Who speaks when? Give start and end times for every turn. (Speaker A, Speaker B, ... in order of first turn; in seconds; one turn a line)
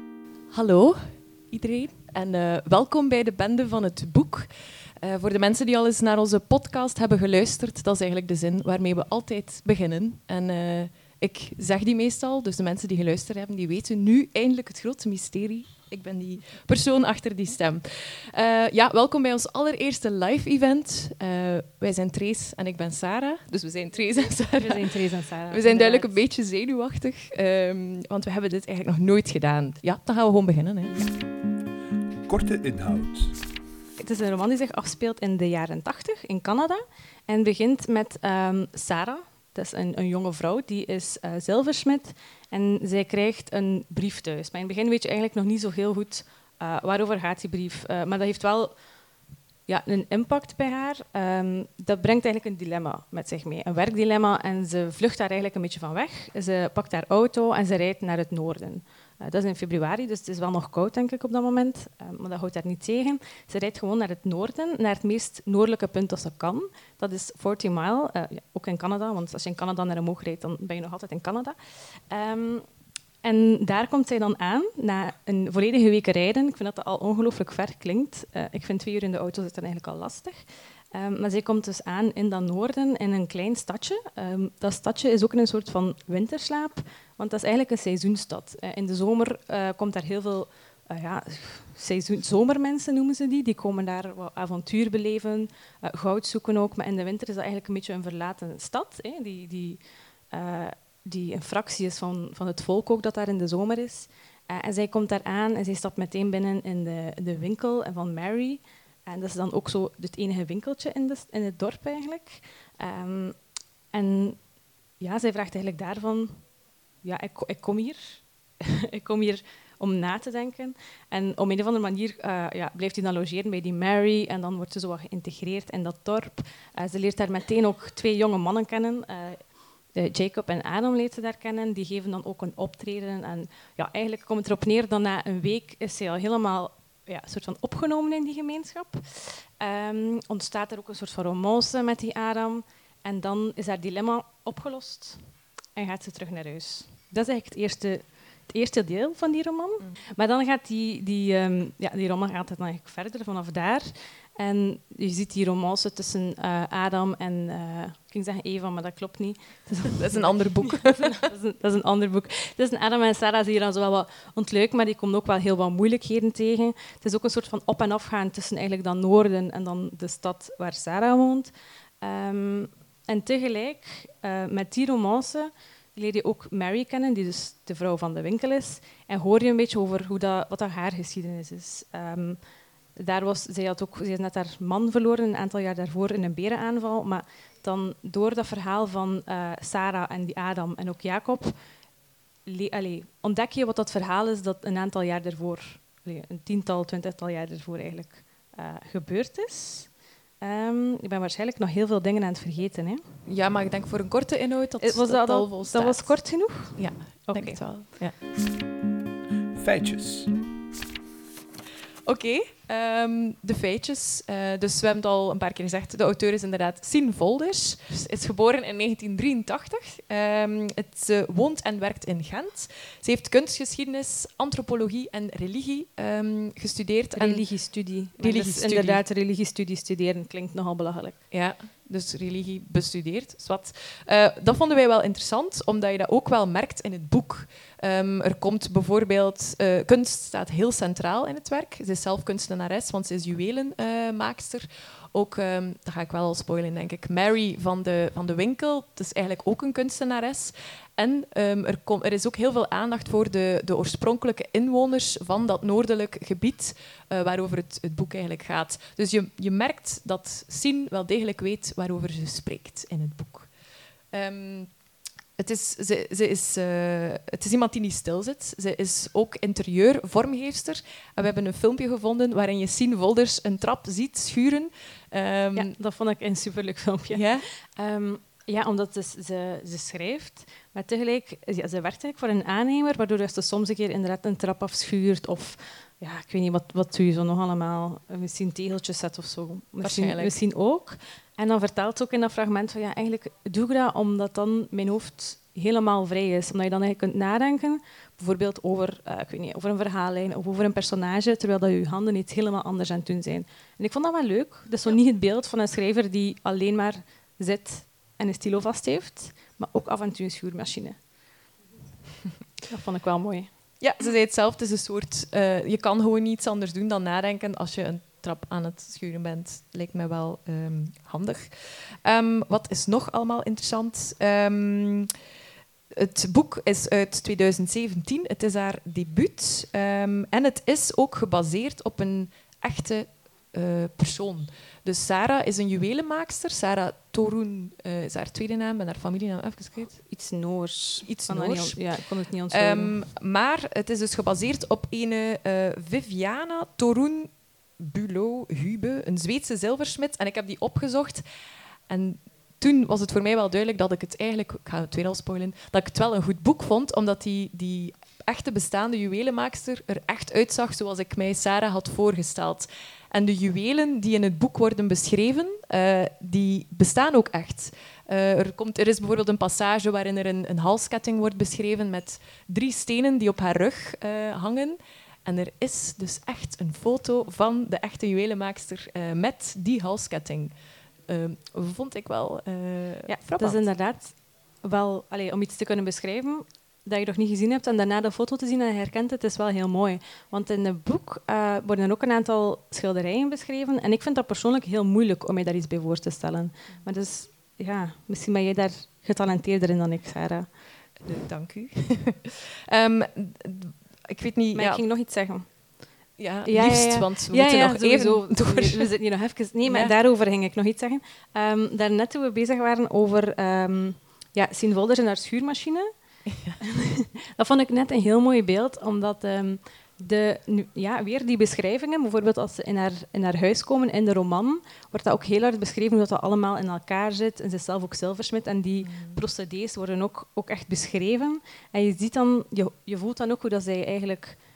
Speaker A: 0.5-30.9
Speaker B: 24.6-26.1
Speaker C: 32.2-33.4
Speaker B: 34.0-48.8
Speaker B: 49.7-72.7
Speaker B: 73.2-113.4
Speaker B: 113.9-114.4
Speaker B: 115.0-116.5
Speaker B: 117.0-182.4
Speaker A: 159.9-161.3
Speaker B: 182.9-191.6
Speaker B: 192.4-203.0
Speaker A: 203.2-208.2
Speaker B: 204.8-207.7
Speaker C: 209.5-210.3
Speaker A: 212.1-227.5
Speaker B: 227.1-231.2
Speaker A: 228.2-229.0
Speaker A: 231.3-263.5
Speaker A: 264.1-264.7
Speaker A: 265.4-275.7
Speaker B: 275.5-311.0
Speaker A: 277.1-277.5
Speaker A: 289.8-290.3
Speaker B: 312.7-313.5
Speaker A: 313.8-325.1
Speaker A: 325.9-340.0
Speaker B: 340.1-342.9
Speaker A: 341.0-342.0
Speaker A: 342.5-351.2
Speaker A: 351.9-380.5
Speaker A: 381.1-383.7
Speaker B: 383.1-400.5
Speaker A: 401.0-404.8
Speaker B: 404.5-405.8
Speaker A: 406.2-408.9
Speaker B: 406.4-415.9
Speaker A: 409.6-409.9
Speaker A: 416.3-416.6
Speaker B: 416.6-434.4
Speaker A: 428.8-429.2